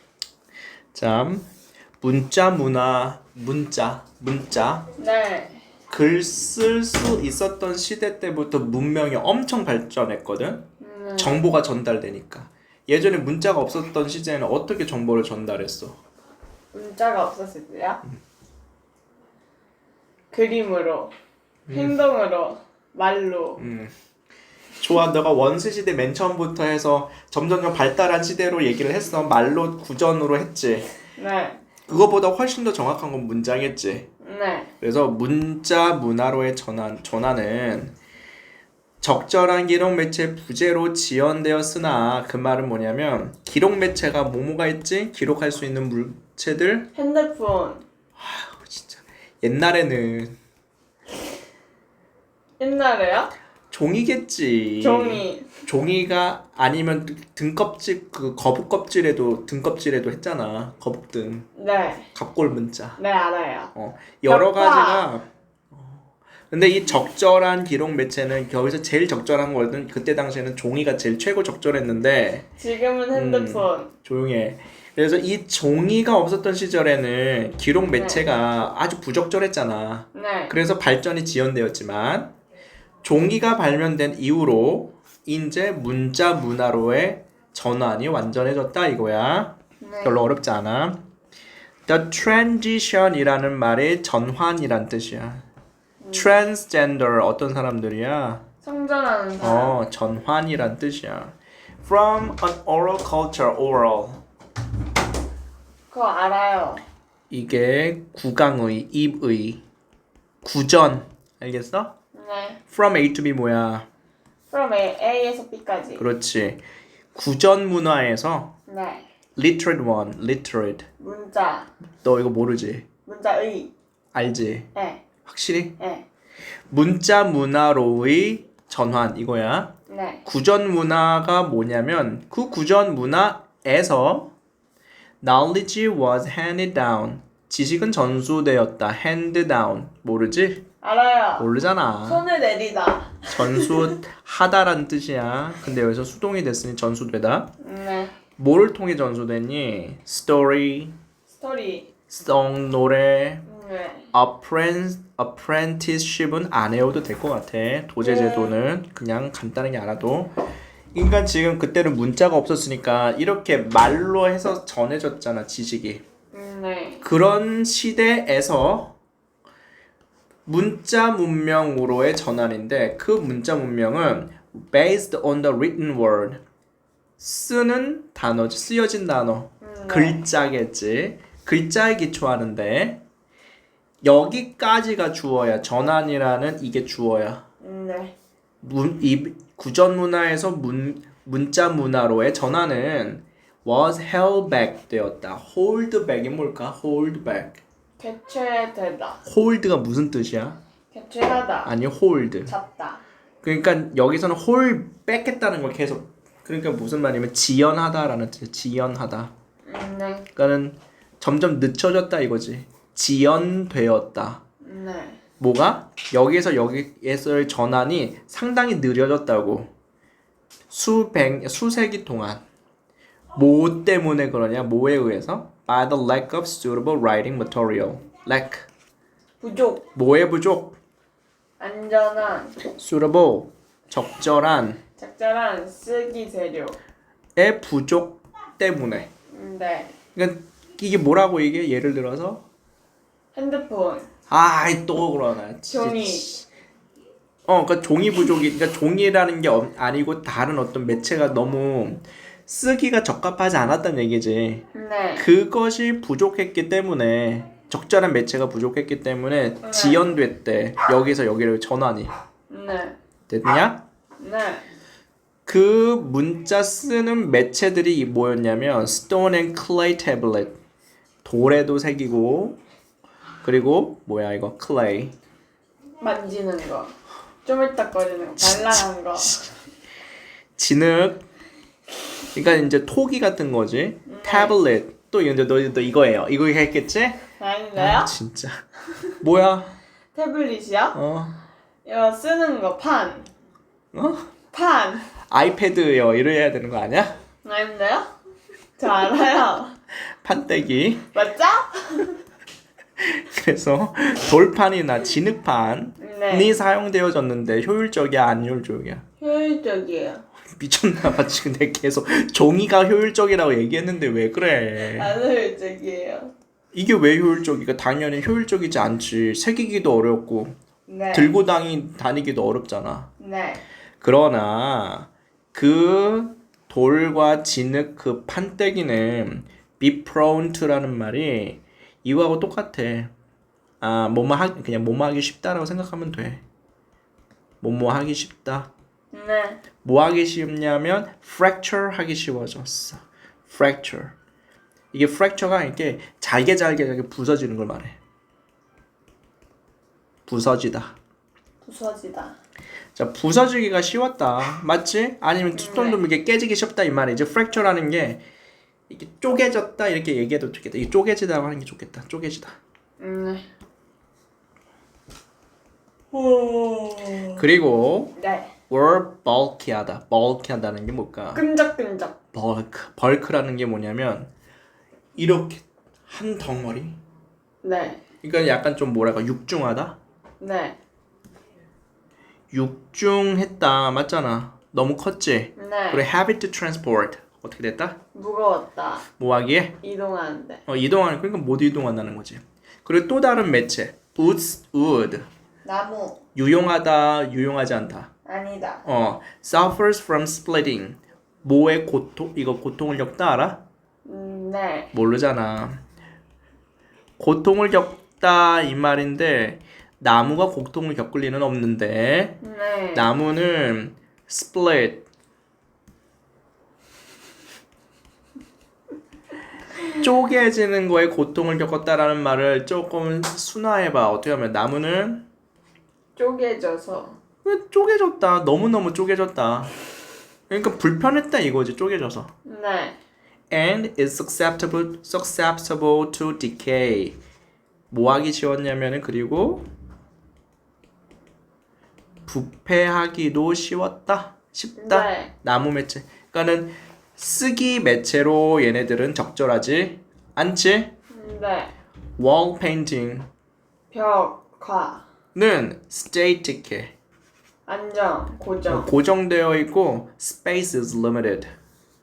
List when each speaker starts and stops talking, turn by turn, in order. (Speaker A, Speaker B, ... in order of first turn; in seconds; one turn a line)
Speaker A: 0.9-1.5
Speaker A: 2.0-4.9
Speaker B: 5.0-5.6
Speaker A: 5.9-16.0
Speaker B: 10.8-11.4
Speaker B: 16.7-18.0
Speaker B: 20.3-21.1
Speaker A: 21.7-22.0
Speaker B: 21.7-23.6
Speaker A: 23.6-23.9
Speaker A: 24.8-30.9
Speaker B: 31.1-31.6
Speaker A: 31.9-34.1
Speaker B: 34.2-34.7
Speaker A: 34.8-37.9
Speaker A: 39.0-46.9
Speaker B: 46.9-47.8
Speaker A: 48.2-50.4
Speaker B: 52.6-53.3
Speaker A: 53.7-61.5
Speaker B: 54.8-55.5
Speaker B: 61.5-62.1
Speaker A: 62.1-63.0
Speaker B: 63.0-63.7
Speaker A: 63.7-72.5
Speaker B: 64.2-65.1
Speaker B: 72.6-73.9
Speaker A: 73.1-82.3
Speaker B: 77.9-78.2
Speaker B: 80.1-80.5
Speaker A: 83.0-91.0
Speaker B: 89.8-90.3
Speaker A: 91.9-95.4
Speaker B: 96.0-96.3
Speaker A: 96.1-98.4
Speaker B: 98.6-99.8
Speaker A: 99.4-104.2
Speaker B: 105.9-106.8
Speaker A: 107.3-109.6
Speaker A: 110.4-111.9
Speaker B: 112.1-112.6
Speaker A: 112.7-113.9
Speaker B: 114.5-116.0
Speaker A: 116.0-116.6
Speaker A: 117.1-118.5
Speaker B: 118.7-119.0
Speaker A: 119.3-120.9
Speaker B: 121.0-121.7
Speaker A: 122.0-122.8
Speaker B: 123.1-123.7
Speaker A: 124.1-124.7
Speaker B: 124.7-125.0
Speaker A: 125.2-125.7
Speaker B: 125.8-126.0
Speaker A: 126.7-129.7
Speaker B: 129.9-130.2
Speaker A: 130.2-134.3
Speaker A: 135.2-140.6
Speaker B: 140.8-141.5
Speaker A: 141.4-142.2
Speaker B: 142.0-143.9
Speaker A: 143.3-147.5
Speaker B: 147.6-148.1
Speaker A: 148.4-150.9
Speaker B: 151.3-151.9
Speaker A: 152.1-153.4
Speaker B: 153.4-154.1
Speaker A: 154.1-160.3
Speaker B: 158.0-158.6
Speaker A: 160.9-166.0
Speaker B: 166.3-167.0
Speaker A: 167.0-168.9
Speaker A: 170.4-176.4
Speaker A: 177.2-183.0
Speaker B: 179.6-180.3
Speaker A: 184.0-187.4
Speaker B: 187.6-188.1
Speaker A: 188.6-197.6
Speaker B: 198.0-199.2
Speaker A: 199.2-200.6
Speaker B: 200.9-201.7
Speaker A: 201.6-202.5
Speaker B: 202.4-203.0
Speaker A: 203.4-209.3
Speaker B: 209.7-210.3
Speaker A: 210.3-214.4
Speaker B: 214.6-215.2
Speaker A: 215.4-219.7
Speaker A: 220.7-222.4
Speaker A: 223.3-228.7
Speaker B: 229.4-229.8
Speaker A: 229.9-230.8
Speaker B: 231.6-232.6
Speaker A: 232.7-234.8
Speaker B: 235.0-236.8
Speaker A: 237.3-239.1
Speaker B: 239.3-239.9
Speaker A: 240.2-242.4
Speaker B: 243.3-244.1
Speaker A: 244.3-246.4
Speaker B: 245.7-246.3
Speaker A: 247.5-254.6
Speaker B: 254.7-255.3
Speaker A: 255.2-262.1
Speaker B: 259.6-260.1
Speaker B: 262.5-262.9
Speaker A: 263.3-263.8
Speaker B: 264.2-264.6
Speaker A: 265.4-270.6
Speaker A: 271.2-272.6
Speaker A: 273.4-275.1
Speaker B: 276.0-279.5
Speaker A: 278.4-279.5
Speaker A: 280.6-281.2
Speaker A: 282.3-287.2
Speaker B: 284.1-284.6
Speaker B: 287.4-288.1
Speaker A: 287.8-288.6
Speaker A: 289.2-289.8
Speaker B: 290.1-291.0
Speaker A: 290.9-291.4
Speaker B: 291.8-293.3
Speaker A: 293.9-294.3
Speaker B: 294.5-295.1
Speaker A: 295.3-297.2
Speaker B: 297.4-298.1
Speaker B: 298.8-299.7
Speaker A: 300.1-301.1
Speaker B: 301.1-302.2
Speaker A: 303.0-309.0
Speaker B: 306.0-306.5
Speaker B: 309.2-310.2
Speaker A: 310.5-315.1
Speaker B: 314.8-316.3
Speaker A: 316.7-320.5
Speaker B: 320.9-321.3
Speaker A: 321.1-323.1
Speaker B: 323.2-323.6
Speaker A: 324.0-333.1
Speaker A: 333.8-336.4
Speaker A: 337.6-338.7
Speaker B: 339.1-339.6
Speaker A: 339.8-344.1
Speaker A: 344.9-347.9
Speaker A: 350.2-350.9
Speaker B: 351.6-352.4
Speaker A: 352.9-358.2
Speaker B: 355.5-356.0
Speaker A: 358.9-362.6
Speaker B: 363.0-363.4
Speaker B: 366.1-367.4
Speaker A: 367.4-368.1
Speaker B: 368.2-368.5
Speaker A: 368.7-371.4
Speaker B: 371.3-372.1
Speaker A: 372.3-374.3
Speaker A: 375.1-377.0
Speaker B: 377.6-378.0
Speaker A: 378.2-380.0
Speaker B: 380.4-380.8
Speaker A: 382.5-388.0
Speaker B: 385.6-386.0
Speaker B: 388.1-389.0
Speaker A: 389.2-389.8
Speaker B: 389.8-390.6
Speaker A: 390.7-395.2
Speaker B: 395.6-396.2
Speaker A: 396.3-398.1
Speaker B: 398.2-398.8
Speaker A: 398.8-403.6
Speaker B: 404.0-404.9
Speaker A: 404.9-405.8
Speaker A: 407.2-412.4
Speaker B: 412.4-413.1
Speaker A: 412.9-415.1
Speaker A: 420.0-425.2
Speaker B: 426.1-427.2
Speaker A: 427.4-429.7
Speaker A: 430.5-432.3
Speaker B: 432.4-433.0
Speaker A: 433.5-437.1
Speaker A: 437.9-439.6
Speaker A: 442.2-450.9
Speaker B: 444.8-445.3
Speaker B: 451.1-451.7
Speaker A: 452.2-453.3
Speaker B: 453.9-455.0
Speaker A: 455.3-456.9
Speaker B: 457.7-458.9
Speaker A: 458.7-461.5